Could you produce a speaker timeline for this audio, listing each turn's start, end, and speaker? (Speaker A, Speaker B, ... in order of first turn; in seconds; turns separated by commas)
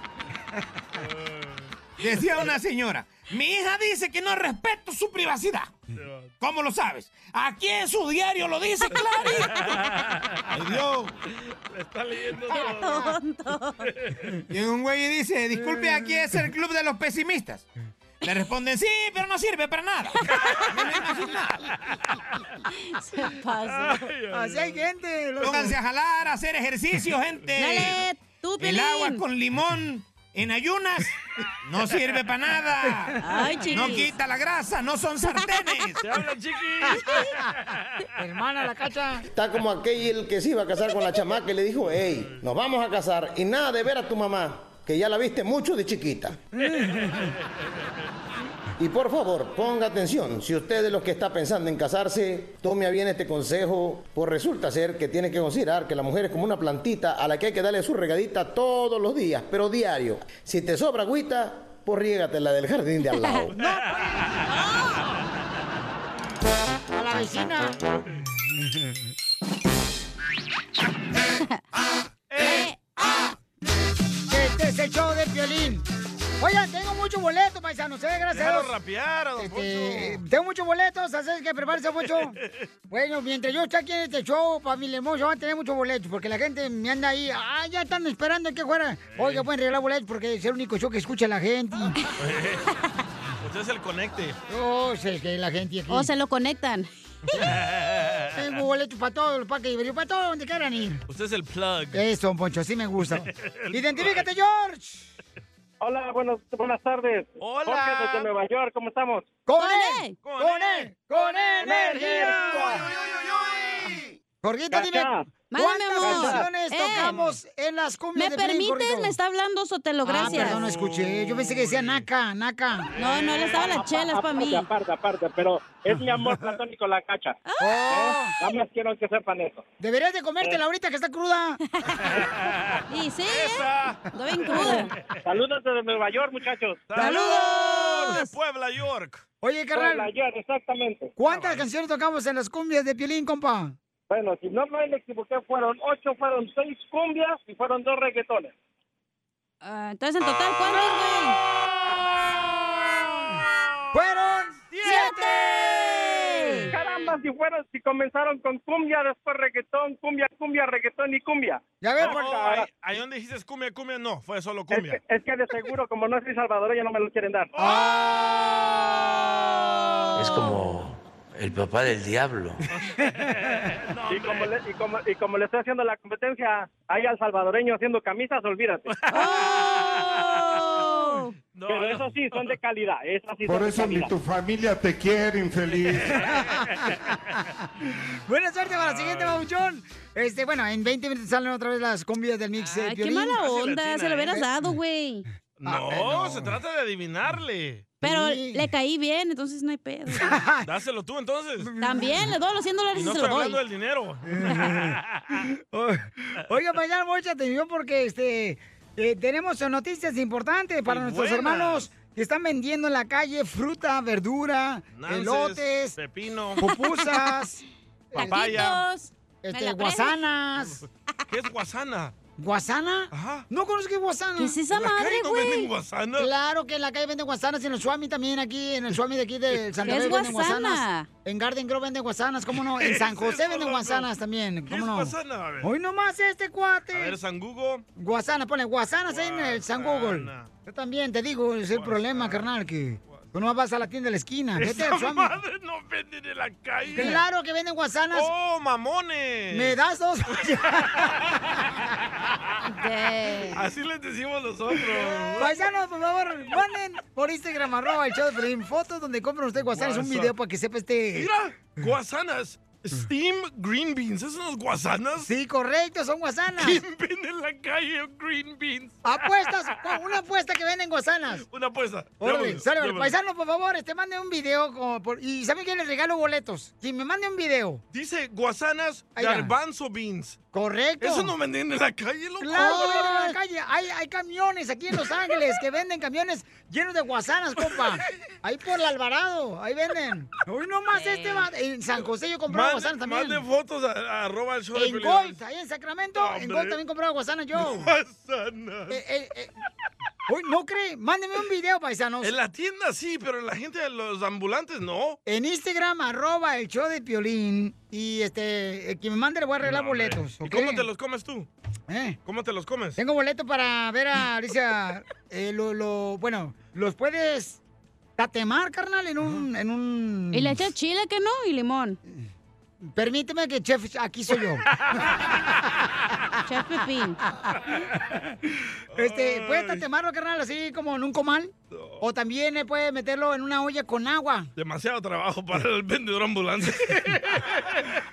Speaker A: 1.0-1.7, Speaker B: 2.0-5.7, Speaker A: 5.9-6.3, Speaker B: 6.4-9.7, Speaker A: 9.4-10.5, Speaker B: 10.5-11.1, Speaker A: 11.5-13.2, Speaker C: 12.5-13.9, Speaker A: 13.8-14.4, Speaker B: 14.5-17.7, Speaker D: 15.6-16.1, Speaker B: 18.2-21.6, Speaker C: 22.7-24.1, Speaker A: 23.6-24.8, Speaker D: 24.3-25.8, Speaker B: 25.4-28.0, Speaker C: 27.6-29.2, Speaker B: 28.6-36.0, Speaker C: 33.2-34.1, Speaker A: 36.0-38.0, Speaker D: 36.9-37.4, Speaker D: 38.1-39.2, Speaker E: 39.3-46.4, Speaker D: 46.6-47.3, Speaker A: 46.8-47.3, Speaker E: 48.8-63.5, Speaker D: 63.6-64.2, Speaker A: 63.6-64.3, Speaker D: 66.9-67.8, Speaker A: 72.3-72.7, Speaker C: 72.4-73.0, Speaker D: 74.3-75.9, Speaker D: 76.4-78.7, Speaker A: 78.3-80.2, Speaker D: 79.4-82.4, Speaker D: 82.9-92.0, Speaker A: 89.1-89.5, Speaker A: 92.2-92.7, Speaker A: 93.4-94.4, Speaker D: 94.5-96.1, Speaker C: 95.9-96.9, Speaker A: 97.3-98.3, Speaker D: 98.3-101.0, Speaker A: 101.1-102.0, Speaker D: 101.9-105.1, Speaker A: 103.3-104.2, Speaker F: 105.8-109.3, Speaker A: 107.4-108.3, Speaker D: 109.5-112.8, Speaker C: 109.6-110.1, Speaker A: 110.2-113.7, Speaker F: 111.6-112.8, Speaker B: 112.9-114.1, Speaker D: 114.4-119.2, Speaker F: 114.7-115.3, Speaker C: 115.5-117.2, Speaker F: 116.0-116.5, Speaker A: 117.0-117.3, Speaker C: 118.1-120.6, Speaker D: 120.0-122.9, Speaker A: 120.2-122.1, Speaker C: 123.0-124.7, Speaker A: 123.0-123.8, Speaker F: 123.5-127.4, Speaker C: 127.5-128.0, Speaker D: 127.6-128.4, Speaker F: 127.9-129.6, Speaker D: 129.8-131.6, Speaker C: 131.8-132.1, Speaker A: 132.0-134.0, Speaker C: 132.9-134.9, Speaker A: 134.5-134.9, Speaker F: 135.2-136.8, Speaker A: 136.9-139.2, Speaker C: 136.9-138.3, Speaker D: 137.0-138.1, Speaker D: 139.4-140.1, Speaker F: 139.7-141.1, Speaker D: 141.2-143.8, Speaker A: 141.2-141.7, Speaker F: 144.1-148.5, Speaker C: 149.6-151.4, Speaker D: 152.9-153.4, Speaker D: 153.9-156.7, Speaker A: 154.7-155.1, Speaker C: 154.8-156.7, Speaker F: 156.7-162.7, Speaker D: 161.8-162.4, Speaker A: 162.0-165.0, Speaker F: 164.7-167.5, Speaker A: 167.6-168.2, Speaker G: 170.1-172.6, Speaker A: 172.7-174.5, Speaker F: 174.1-178.9, Speaker A: 178.9-180.9, Speaker C: 179.1-181.3, Speaker A: 181.5-182.6, Speaker F: 181.7-184.1, Speaker H: 183.4-186.1, Speaker A: 186.0-186.9, Speaker D: 186.3-186.9, Speaker D: 188.2-193.4, Speaker A: 188.7-189.4, Speaker C: 192.6-195.2, Speaker A: 193.4-194.4, Speaker A: 195.6-197.9, Speaker D: 195.6-196.5, Speaker D: 198.0-198.7, Speaker C: 198.0-200.3, Speaker D: 200.1-200.7, Speaker A: 200.6-201.7, Speaker D: 201.6-202.4, Speaker C: 201.8-203.6, Speaker A: 202.9-205.4, Speaker D: 204.3-216.0, Speaker A: 210.9-211.9, Speaker A: 214.9-216.6, Speaker D: 216.6-218.8, Speaker A: 218.1-218.8, Speaker C: 218.2-220.2, Speaker D: 219.4-220.8, Speaker A: 220.6-222.1, Speaker D: 222.4-224.6, Speaker A: 223.1-223.4, Speaker C: 224.4-225.7, Speaker A: 224.7-226.3, Speaker D: 226.2-237.2, Speaker C: 229.8-231.1, Speaker A: 232.8-234.1, Speaker A: 234.7-235.7, Speaker A: 236.9-237.8, Speaker D: 237.9-245.3, Speaker A: 239.1-240.5, Speaker A: 241.7-242.5, Speaker A: 244.6-247.2, Speaker D: 246.9-248.3, Speaker A: 248.1-249.8, Speaker D: 249.5-251.3, Speaker A: 252.2-252.6, Speaker C: 252.7-253.6, Speaker A: 253.5-255.6, Speaker D: 255.3-261.3, Speaker A: 259.7-260.3, Speaker A: 261.1-265.3, Speaker D: 265.2-266.8, Speaker A: 266.6-270.0, Speaker D: 269.0-271.4, Speaker A: 271.4-273.1, Speaker D: 272.2-277.8, Speaker A: 277.9-280.4, Speaker D: 279.1-279.5, Speaker D: 280.5-281.3, Speaker A: 281.0-283.3, Speaker D: 282.4-293.4, Speaker C: 282.6-283.4, Speaker C: 290.9-291.5, Speaker A: 292.5-295.4, Speaker D: 294.7-297.9, Speaker A: 296.1-296.8, Speaker A: 297.5-299.0, Speaker D: 298.9-299.5, Speaker D: 300.3-302.4, Speaker A: 302.2-305.2, Speaker D: 305.2-310.9, Speaker A: 309.6-311.5, Speaker D: 311.9-312.2, Speaker A: 312.2-313.0, Speaker D: 312.9-317.6, Speaker D: 318.2-320.6, Speaker C: 320.3-322.0, Speaker D: 322.9-325.1, Speaker A: 324.7-325.1, Speaker C: 326.4-327.2, Speaker A: 328.9-329.9, Speaker D: 328.9-334.5, Speaker A: 331.7-332.0, Speaker A: 334.6-338.0